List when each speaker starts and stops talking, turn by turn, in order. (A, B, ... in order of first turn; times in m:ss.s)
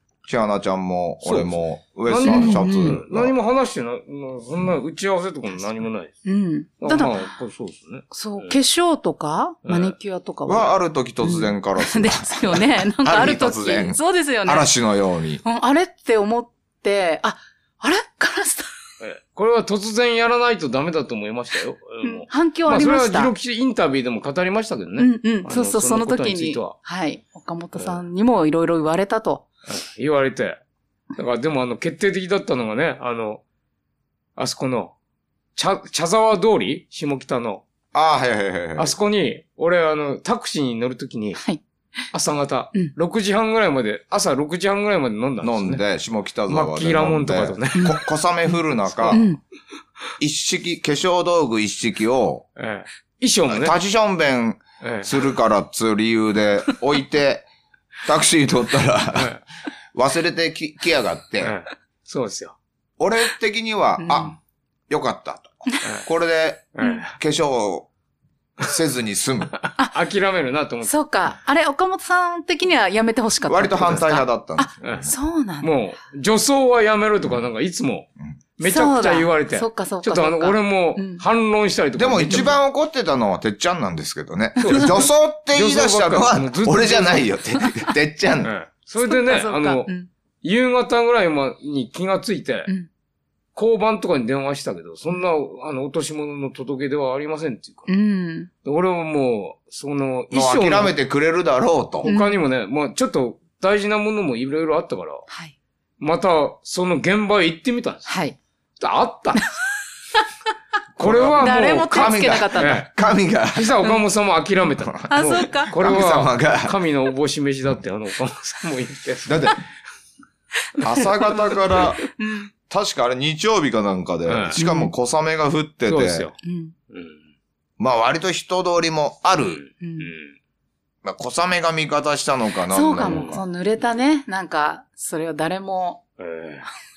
0:00.2-0:03.3 A
0:01.2-0:01.5 B
0:02.1-0:06.1 B
0:02.2-0:03.0 C
0:06.2-0:07.3 C
0:06.8-0:08.6 B
0:08.1-0:14.7 C
0:09.6-0:10.0 B
0:10.4-0:15.4 A
0:15.4-0:18.7 C
0:19.0-0:26.8 B
0:22.0-0:23.3 C
0:25.0-0:29.5 C
0:29.7-0:30.6 B
0:31.2-0:33.4 B
0:34.4-0:34.9 B
0:35.6-0:37.6 B
0:37.9-0:38.9 A
0:38.8-0:41.4 B
0:41.4-0:41.6 C
0:42.1-0:45.8 B
0:45.4-0:49.2 A
0:46.5-0:47.9 B
0:47.7-0:48.0 C
0:48.9-0:49.2 B
0:49.1-0:49.4 C
0:50.2-0:52.5 A
0:52.6-0:53.7 B
0:53.5-0:57.5 A
0:54.8-0:55.1 B
0:58.0-0:59.4 A
0:59.9-1:01.5 A
1:01.4-1:02.6 B
1:03.0-1:04.4 A
1:04.0-1:04.3 C
1:04.9-1:07.9 A
1:06.7-1:07.1 B
1:08.6-1:09.5 A
1:09.6-1:10.9 B
1:10.8-1:15.7 C
1:13.5-1:15.1 A
1:15.6-1:22.5 B
1:18.6-1:21.2 C
1:22.0-1:28.5 A
1:24.6-1:25.0 B
1:25.5-1:27.3 B
1:28.4-1:29.9 B
1:29.0-1:30.1 C
1:30.4-1:32.7 B
1:33.5-1:37.9 B
1:37.9-1:38.5 C
1:38.6-1:40.9 B
1:40.3-1:42.1 A
1:42.0-1:42.4 C
1:42.0-1:45.2 B
1:45.3-1:45.5 C
1:46.0-1:48.1 B
1:48.1-1:48.4 C
1:48.8-1:49.5 B
1:51.0-1:52.9 B
1:51.0-1:53.8 A
1:51.4-1:52.9 C
1:53.5-1:59.4 B
1:55.1-1:55.8 C
1:55.7-1:56.8 A
1:59.2-1:59.6 A
2:00.8-2:02.0 A
2:02.2-2:02.5 C
2:02.7-2:06.3 A
2:04.3-2:04.6 B
2:04.6-2:04.9 C
2:05.9-2:06.3 B
2:06.4-2:06.7 C
2:06.9-2:07.2 B
2:07.8-2:09.6 A
2:09.4-2:10.3 B
2:09.8-2:10.1 C
2:11.0-2:13.4 A
2:12.7-2:16.0 C
2:13.0-2:13.4 B
2:16.2-2:16.6 B